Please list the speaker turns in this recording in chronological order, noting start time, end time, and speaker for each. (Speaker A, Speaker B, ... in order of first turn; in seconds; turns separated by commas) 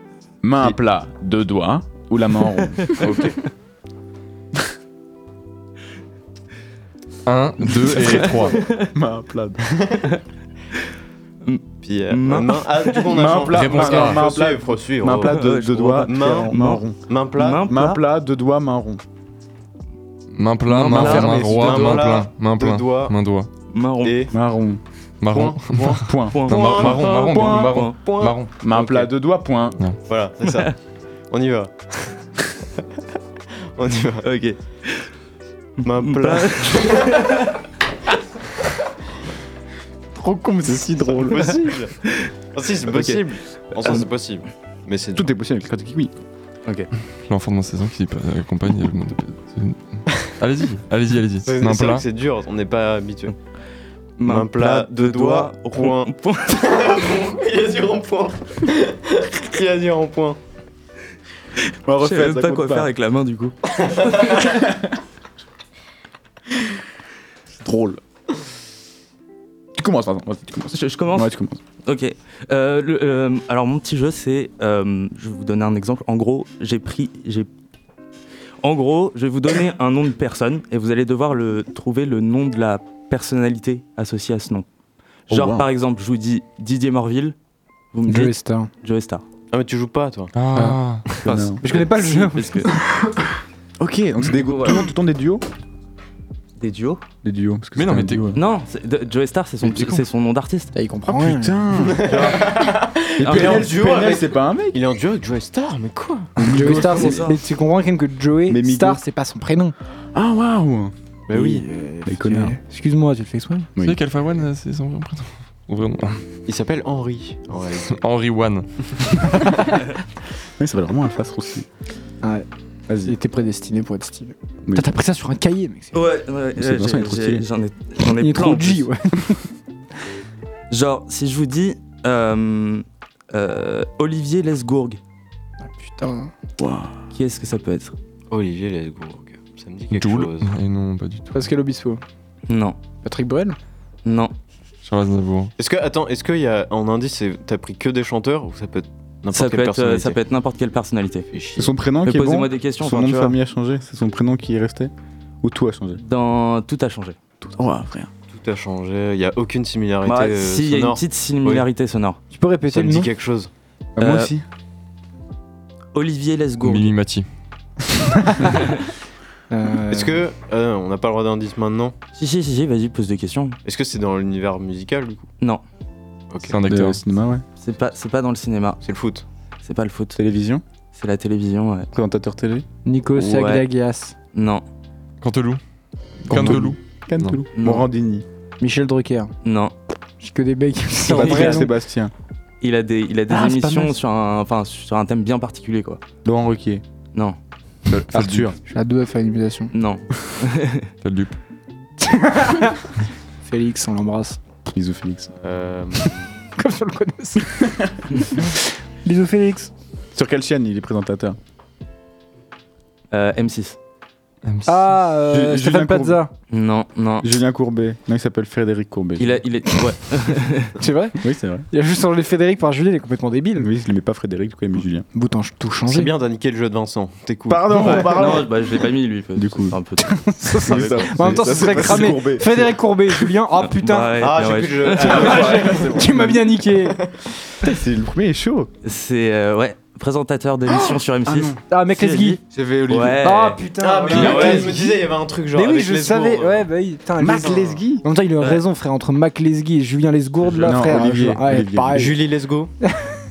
Speaker A: 0.4-3.1, Speaker B: 3.0-3.4, Speaker C: 7.3-8.6, Speaker A: 7.8-9.6, Speaker D: 8.1-8.9, Speaker D: 11.4-13.1, Speaker B: 11.8-17.7, Speaker A: 13.1-17.0, Speaker C: 13.5-14.3, Speaker D: 15.2-16.8, Speaker D: 17.4-18.0, Speaker A: 17.6-19.0, Speaker C: 20.3-23.5, Speaker D: 20.7-21.5, Speaker A: 20.9-22.1, Speaker B: 20.9-23.1, Speaker D: 23.7-24.2, Speaker B: 24.0-24.3, Speaker A: 24.3-24.8, Speaker C: 25.2-28.5, Speaker B: 25.3-29.1, Speaker A: 26.1-26.4, Speaker D: 26.3-28.3, Speaker A: 28.6-29.8, Speaker B: 30.1-30.8, Speaker B: 31.3-32.1, Speaker B: 33.8-34.3, Speaker D: 34.2-35.0, Speaker D: 35.8-37.4, Speaker B: 35.9-37.2, Speaker A: 40.1-41.6, Speaker B: 41.1-42.0, Speaker B: 42.5-45.3, Speaker A: 42.9-43.2, Speaker A: 45.1-46.1, Speaker C: 47.3-52.0, Speaker B: 51.4-53.3, Speaker D: 54.2-56.6, Speaker B: 54.2-60.4, Speaker A: 61.9-62.9, Speaker D: 62.0-63.5, Speaker A: 64.5-64.7, Speaker A: 67.5-68.0, Speaker A: 69.8-71.6, Speaker D: 70.7-71.3, Speaker D: 71.8-77.5, Speaker D: 78.6-84.7, Speaker D: 85.3-87.3, Speaker A: 85.3-85.7, Speaker D: 87.9-89.2, Speaker E: 88.1-88.7, Speaker B: 89.5-90.3, Speaker C: 90.3-91.1, Speaker E: 90.5-90.8, Speaker D: 91.2-92.7, Speaker A: 91.2-91.6, Speaker E: 91.6-92.7, Speaker A: 93.8-95.4, Speaker D: 94.3-94.8, Speaker D: 96.6-97.0, Speaker A: 97.2-98.4, Speaker C: 97.8-98.4, Speaker D: 98.3-100.7, Speaker E: 100.7-101.9, Speaker A: 101.1-104.8, Speaker B: 101.8-106.3, Speaker D: 103.2-103.7, Speaker A: 106.4-107.3, Speaker E: 106.4-109.7, Speaker D: 106.7-107.4, Speaker A: 108.5-109.0, Speaker A: 110.1-110.9, Speaker B: 111.3-111.6, Speaker E: 111.3-113.7, Speaker A: 112.1-112.6, Speaker C: 113.8-116.2, Speaker B: 116.5-118.0, Speaker C: 117.9-119.3, Speaker A: 120.6-121.7, Speaker A: 122.9-123.1, Speaker E: 123.0-126.0, Speaker A: 124.7-124.9, Speaker D: 125.9-128.9, Speaker A: 126.6-127.4, Speaker E: 128.2-129.5, Speaker D: 130.7-135.0, Speaker E: 135.6-136.3, Speaker A: 136.6-136.9, Speaker D: 137.1-137.9, Speaker B: 138.3-140.5, Speaker C: 139.9-141.4, Speaker E: 141.3-142.0, Speaker D: 142.5-142.8, Speaker E: 143.0-143.6, Speaker D: 144.1-144.3, Speaker C: 144.8-145.5, Speaker B: 145.6-150.2, Speaker D: 149.3-151.3, Speaker B: 151.3-151.7, Speaker A: 151.6-156.0, Speaker D: 152.1-153.4, Speaker D: 156.0-157.2, Speaker A: 157.4-158.1, Speaker B: 158.3-161.7, Speaker D: 160.1-162.2, Speaker E: 162.3-163.1, Speaker B: 162.7-163.5, Speaker A: 163.9-164.4, Speaker D: 164.0-164.3, Speaker D: 165.9-166.9, Speaker C: 166.6-167.3, Speaker E: 169.5-170.2, Speaker B: 169.9-171.9, Speaker D: 172.2-173.6, Speaker B: 173.6-175.3, Speaker B: 176.3-176.6, Speaker C: 176.4-177.0, Speaker A: 176.7-177.4, Speaker D: 177.6-178.8, Speaker B: 178.8-179.2, Speaker D: 179.6-180.2, Speaker A: 180.2-180.6, Speaker D: 180.9-181.9, Speaker A: 181.9-182.7, Speaker E: 182.8-184.1, Speaker D: 183.2-183.7, Speaker D: 184.3-184.6, Speaker C: 185.2-185.6, Speaker C: 186.2-187.4, Speaker A: 186.3-188.2, Speaker D: 187.6-187.9, Speaker E: 188.6-189.3, Speaker D: 189.4-189.7, Speaker E: 190.2-191.7, Speaker A: 191.1-192.1, Speaker D: 191.1-191.7, Speaker D: 192.6-196.0, Speaker E: 193.3-193.9, Speaker A: 196.2-196.8, Speaker A: 197.9-198.6, Speaker C: 198.1-198.5, Speaker E: 198.7-199.7, Speaker D: 199.7-200.9, Speaker C: 201.0-201.3, Speaker E: 202.0-202.8, Speaker E: 203.4-204.4, Speaker A: 204.7-205.3, Speaker B: 205.3-206.3, Speaker E: 206.6-209.7, Speaker A: 210.1-211.4, Speaker D: 213.1-213.8, Speaker C: 214.4-214.9, Speaker E: 214.7-216.3, Speaker A: 215.3-216.2, Speaker D: 216.5-217.3, Speaker A: 217.2-219.4, Speaker D: 219.2-220.7, Speaker E: 220.8-223.7, Speaker A: 221.2-221.7, Speaker A: 223.6-225.1, Speaker E: 225.1-226.1, Speaker B: 225.9-228.4, Speaker A: 227.5-228.6, Speaker D: 227.8-231.3, Speaker A: 229.3-229.8, Speaker E: 230.0-234.2, Speaker A: 230.6-233.1, Speaker D: 233.6-235.5, Speaker B: 234.2-236.0, Speaker E: 235.0-237.0, Speaker A: 235.1-236.4, Speaker A: 237.6-238.7, Speaker D: 238.8-244.6, Speaker A: 240.7-241.6, Speaker E: 241.7-242.4, Speaker A: 242.5-243.4, Speaker E: 243.2-244.9, Speaker B: 243.8-246.7, Speaker A: 244.1-244.8, Speaker E: 245.5-252.2, Speaker A: 247.2-248.1, Speaker B: 247.4-247.8, Speaker A: 250.6-252.2, Speaker B: 251.9-252.7, Speaker E: 252.8-253.2